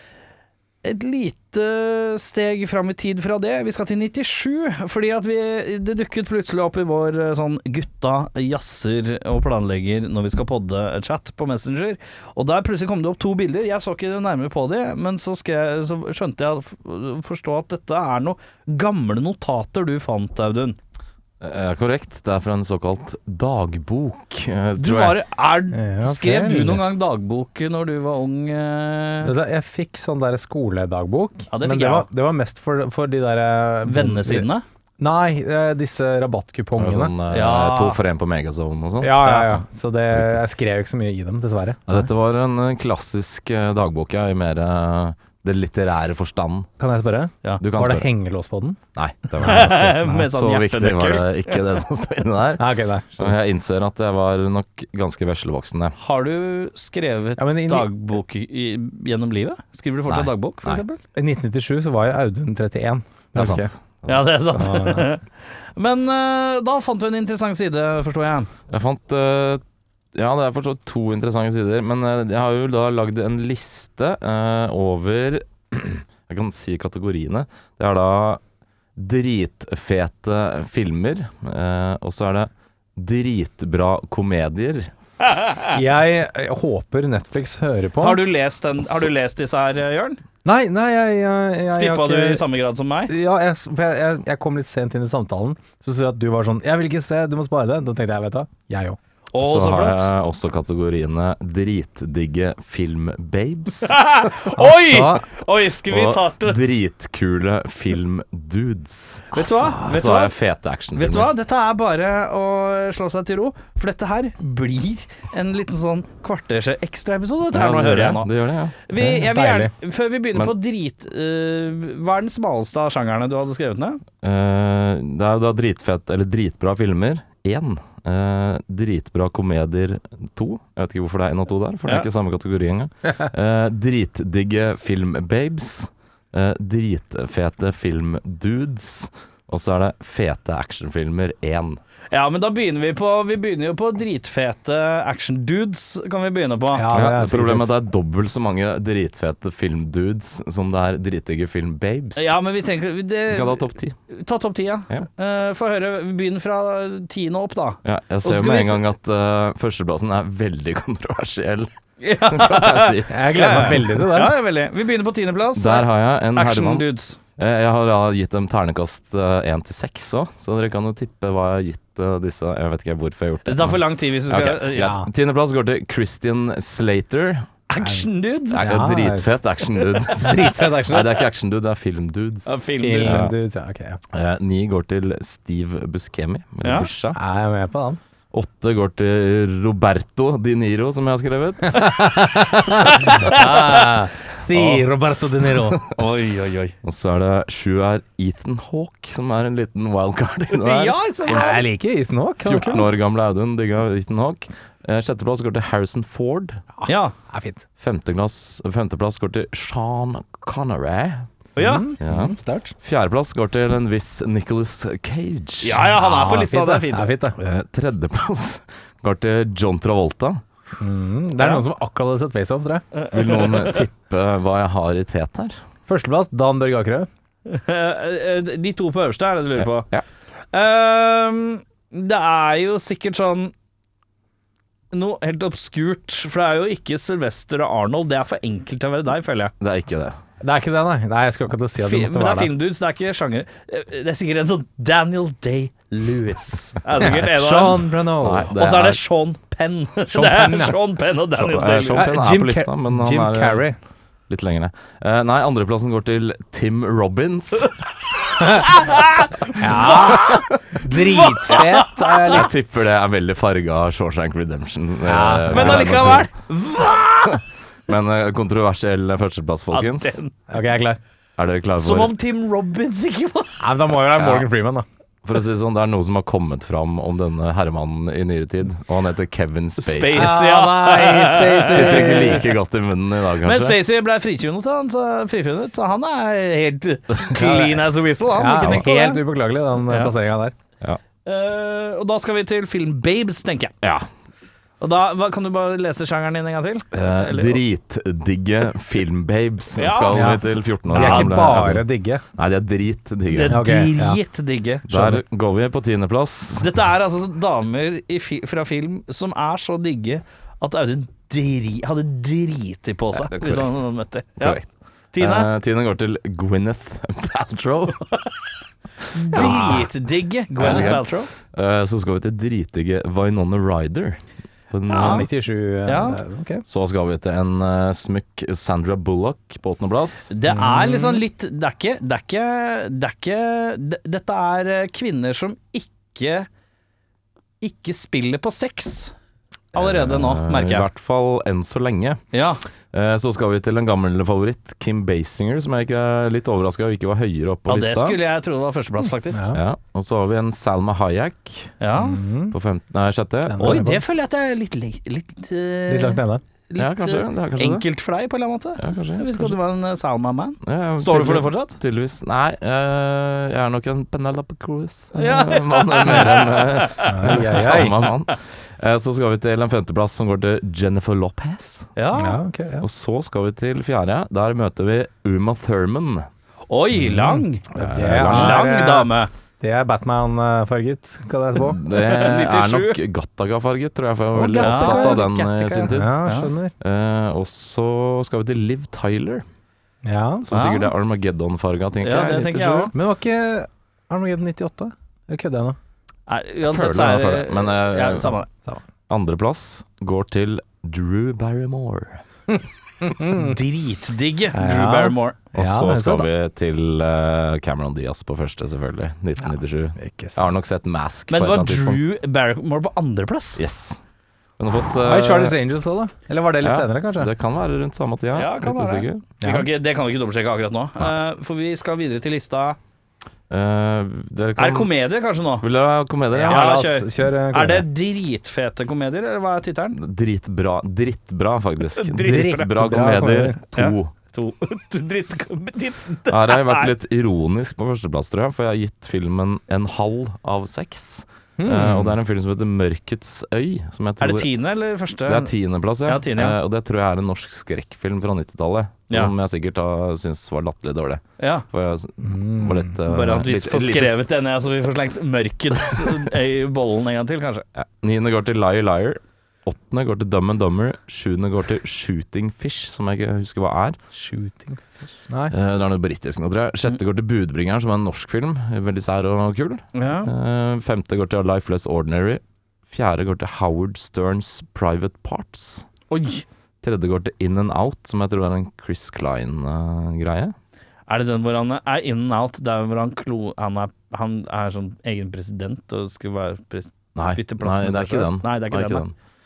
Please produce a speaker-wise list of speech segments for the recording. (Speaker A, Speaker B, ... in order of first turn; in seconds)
Speaker A: 0.8-20.8, 24.8-29.3, 31.5-32.1, 33.8-34.6, 37.3-38.0, 39.2-39.5, 49.4-51.6, 56.0-61.0, 64.1-68.5, 85.2-85.7, 88.0-90.2, 91.7-93.1, 99.3-100.1, 103.8-106.6, 109.3-110.3, 110.9-118.3, 118.8-124.0, 142.1-146.9, 152.2-158.8, 162.0-167.2, 173.4-175.0, 177.7-178.7, 182.4-183.3, 186.6-186.9, 192.8-193.9, 195.9-196.7, 200.5-201.6, 206.8-207.2, 211.6-211.9, 215.6-217.1, 223.0-223.8, 227.4-229.9, 230.5-233.5, 234.9-239.5, 241.8-247.8, 248.5-252.1, 258.5-260.3, 260.9-262.4, 265.5-267.4, 269.7-270.3, 271.8-273.9, 279.8-282.4, 283.4-290.1, 291.2-293.7, 294.8-297.6, 299.7-300.4, 300.9-301.6, 303.3-304.9, 306.5-314.6, 315.1-315.5, 319.1-321.3, 324.9-325.3, 325.8-326.2, 330.3-336.5, 337.6-339.1, 339.7-340.9, 342.3-342.6, 347.7-349.5, 351.8-352.2, 353.6-361.7, 365.1-368.0, 371.9-372.4, 376.7-377.7, 378.2-379.3, 381.9-383.0, 384.6-386.5, 390.5-390.9, 392.0-392.9, 396.3-398.5, 403.2-405.4, 411.3-413.6, 418.3-422.8, 424.6-425.6, 426.5-430.0, 431.9-432.7, 433.7-436.9, 444.2-445.5, 446.0-446.6, 451.4-451.6, 453.0-457.6, 469.9-470.3, 476.1-476.4, 481.1-489.1
Speaker B: 21.4-25.2, 36.8-39.5, 40.1-40.4, 41.9-46.7, 47.6-48.1, 48.9-56.0, 60.1-60.8, 63.3-64.5, 68.7-69.6, 70.1-78.4, 79.0-84.9, 99.4-104.0, 105.8-111.3, 117.5-118.8, 124.2-141.8, 146.9-152.4, 153.3-154.0, 157.8-164.0, 165.6-177.4, 178.5-183.3, 184.1-187.2, 188.3-191.9, 196.8-201.6, 202.4-206.6, 207.8-211.3, 212.0-215.8, 217.4-220.4, 223.1-225.6, 229.6-230.0, 239.6-240.2, 248.2-249.0, 251.3-253.7, 254.3-257.8, 259.6-260.5, 262.3-266.3, 267.9-270.2, 271.4-272.1, 274.2-274.5, 275.2-280.4, 281.4-283.8, 287.2-287.8, 288.6-288.9, 296.9-303.7, 304.9-306.7, 313.1-318.3, 319.3-319.9, 320.6-324.2, 324.7-325.3, 326.6-330.3, 339.8-342.2, 342.9-348.2, 349.5-351.8, 352.5-353.8, 356.8-357.9, 358.8-359.6, 360.6-371.9, 372.8-376.2, 377.7-378.7, 381.6-386.2, 386.8-389.4, 390.4-392.9, 396.6-398.4, 399.1-402.2, 405.5-412.1, 413.6-414.0, 414.6-415.6, 416.6-419.2, 423.5-424.9, 425.6-426.6, 429.9-434.1, 436.3-444.5, 445.2-454.2, 457.8-464.0, 465.5-475.9, 476.8-480.5, 487.1-489.1
Speaker C: 25.7-26.8, 29.2-37.1, 39.0-42.1, 46.8-48.8, 49.4-50.2, 52.6-53.4, 57.4-57.9, 61.1-63.7, 64.5-65.1, 85.7-88.2, 90.4-92.4, 93.1-99.0, 104.6-105.2, 119.0-119.7, 146.7-147.8, 163.1-164.4, 174.8-175.1, 178.6-179.4, 180.1-181.2, 182.8-184.0, 187.1-188.0, 191.7-195.8, 201.2-202.9, 206.8-207.6, 211.6-212.7, 215.8-217.4, 220.8-222.8, 225.9-227.1, 240.4-242.5, 247.0-248.5, 250.1-250.8, 251.8-253.8, 259.6-262.5, 265.0-266.2, 270.5-271.0, 273.6-274.8, 280.1-282.4, 288.3-290.5, 300.1-302.2, 303.5-304.2, 304.9-305.2, 319.4-319.8, 320.6-320.9, 325.0-326.6, 330.5-331.2, 349.3-349.6, 351.9-352.6, 353.4-354.0, 355.9-356.4, 367.1-368.0, 372.1-372.9, 376.9-381.8, 384.3-385.3, 385.8-386.7, 390.0-390.5, 392.9-395.8, 403.0-403.5, 404.5-406.3, 410.0-410.4, 415.0-417.3, 419.4-419.7, 426.3-427.9, 432.2-433.6, 441.6-442.2, 452.2-452.9, 464.1-465.5